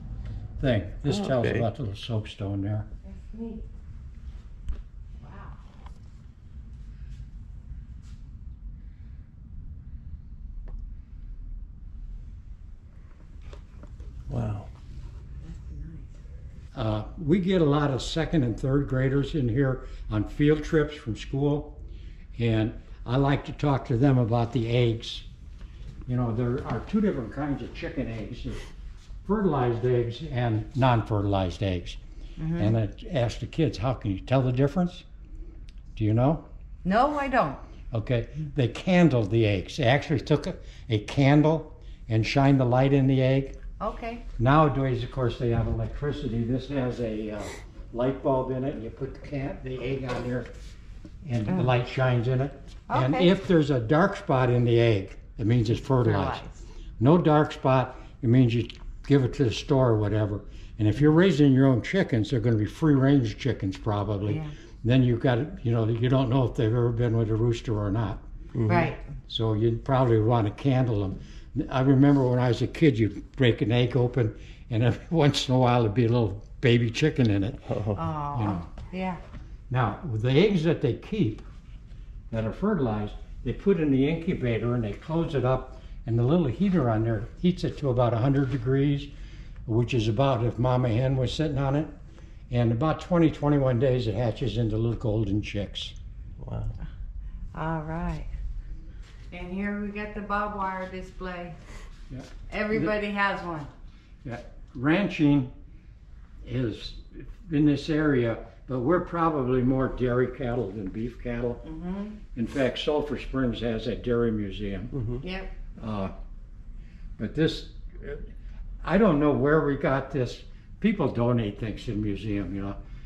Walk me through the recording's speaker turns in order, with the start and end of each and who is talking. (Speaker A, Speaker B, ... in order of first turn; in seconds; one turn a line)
Speaker A: 0.6-2.9
Speaker B: 1.1-1.7
Speaker C: 3.0-3.6
Speaker C: 5.2-5.5
Speaker B: 14.3-14.7
Speaker C: 15.4-16.1
Speaker A: 16.7-21.8
Speaker A: 22.4-25.3
Speaker A: 26.1-28.6
Speaker A: 29.2-32.0
Speaker C: 32.4-32.8
Speaker A: 32.5-35.0
Speaker A: 36.0-36.5
Speaker C: 36.8-37.6
Speaker A: 37.9-43.6
Speaker C: 43.8-44.2
Speaker A: 44.4-50.5
Speaker A: 51.2-56.4
Speaker C: 52.9-53.3
Speaker C: 55.9-56.6
Speaker A: 57.0-68.2
Speaker C: 64.3-64.5
Speaker B: 68.5-68.9
Speaker C: 68.6-69.0
Speaker A: 69.3-78.7
Speaker B: 77.7-78.0
Speaker C: 78.0-79.2
Speaker A: 79.7-81.4
Speaker A: 82.3-89.1
Speaker A: 89.7-91.9
Speaker A: 92.5-95.9
Speaker B: 96.4-96.7
Speaker C: 97.5-98.3
Speaker C: 99.3-101.6
Speaker A: 102.1-102.9
Speaker C: 102.5-103.7
Speaker A: 104.2-105.5
Speaker A: 106.4-111.6
Speaker C: 111.6-112.2
Speaker A: 112.3-115.0
Speaker B: 114.9-115.2
Speaker C: 115.2-115.5
Speaker A: 115.8-116.1
Speaker A: 117.2-118.3
Speaker A: 118.8-122.8